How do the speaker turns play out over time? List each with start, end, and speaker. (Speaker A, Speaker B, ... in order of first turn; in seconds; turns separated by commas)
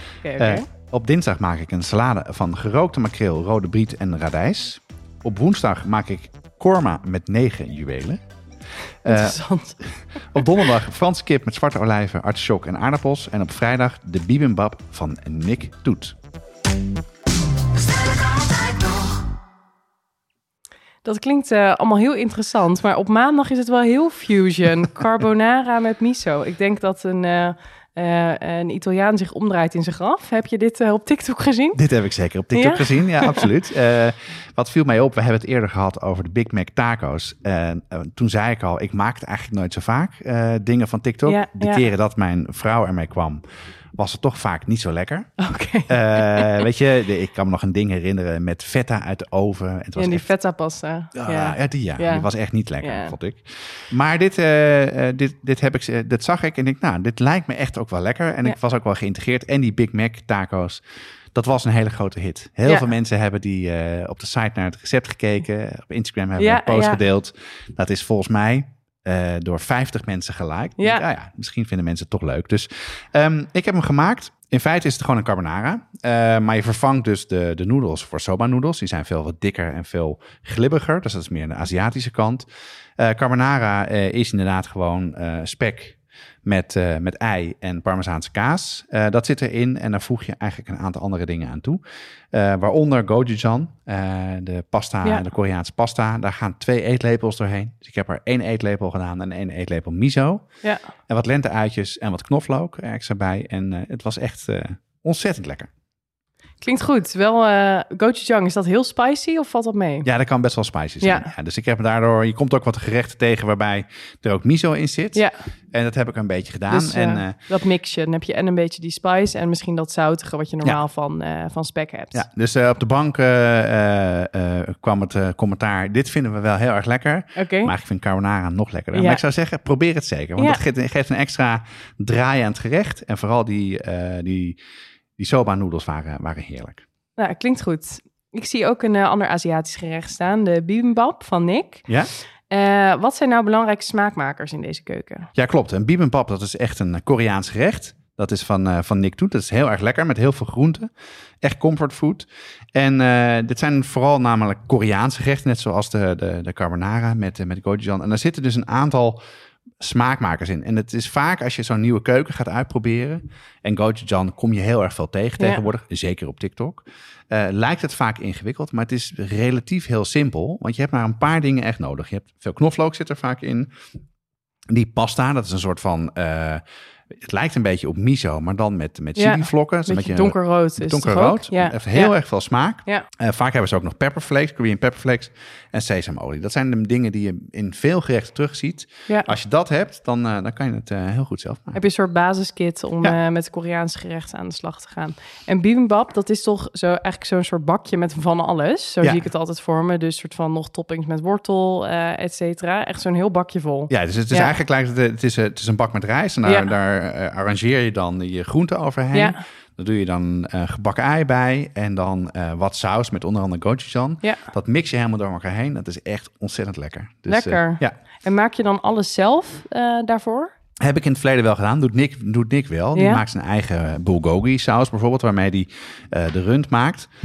Speaker A: 0.2-0.7, Speaker B: 0.4-8.2, Speaker B: 9.1-9.4, Speaker A: 9.1-9.8, Speaker B: 10.3-16.2, Speaker A: 21.0-31.8, Speaker B: 31.8-43.4, Speaker A: 32.5-33.5, Speaker A: 41.3-41.8, Speaker B: 44.0-45.4, Speaker A: 45.4-46.6, Speaker B: 45.9-50.3, Speaker A: 50.0-52.3, Speaker B: 51.1-60.8, Speaker A: 52.8-53.1, Speaker B: 61.3-82.5, Speaker A: 66.4-67.0, Speaker A: 70.8-71.1, Speaker B: 83.0-91.8, Speaker B: 92.3-100.5, Speaker B: 101.1-105.7, Speaker A: 106.6-110.1, Speaker B: 110.0-117.4, Speaker A: 111.0-111.3, Speaker A: 116.7-122.2, Speaker B: 122.1-134.6, Speaker A: 127.4-127.7, Speaker A: 128.9-129.2, Speaker A: 130.4-130.6, Speaker B: 135.2-136.8, Speaker A: 137.2-141.9, Speaker B: 141.9-142.1, Speaker A: 142.5-145.3, Speaker B: 145.3-150.9, Speaker B: 151.4-159.2, Speaker B: 159.8-173.7, Speaker B: 174.7-191.8, Speaker A: 179.2-182.2, Speaker A: 191.7-204.5, Speaker B: 203.9-217.9, Speaker A: 206.4-206.7, Speaker A: 209.1-209.4, Speaker A: 217.3-220.5, Speaker B: 220.8-227.1, Speaker A: 222.9-223.2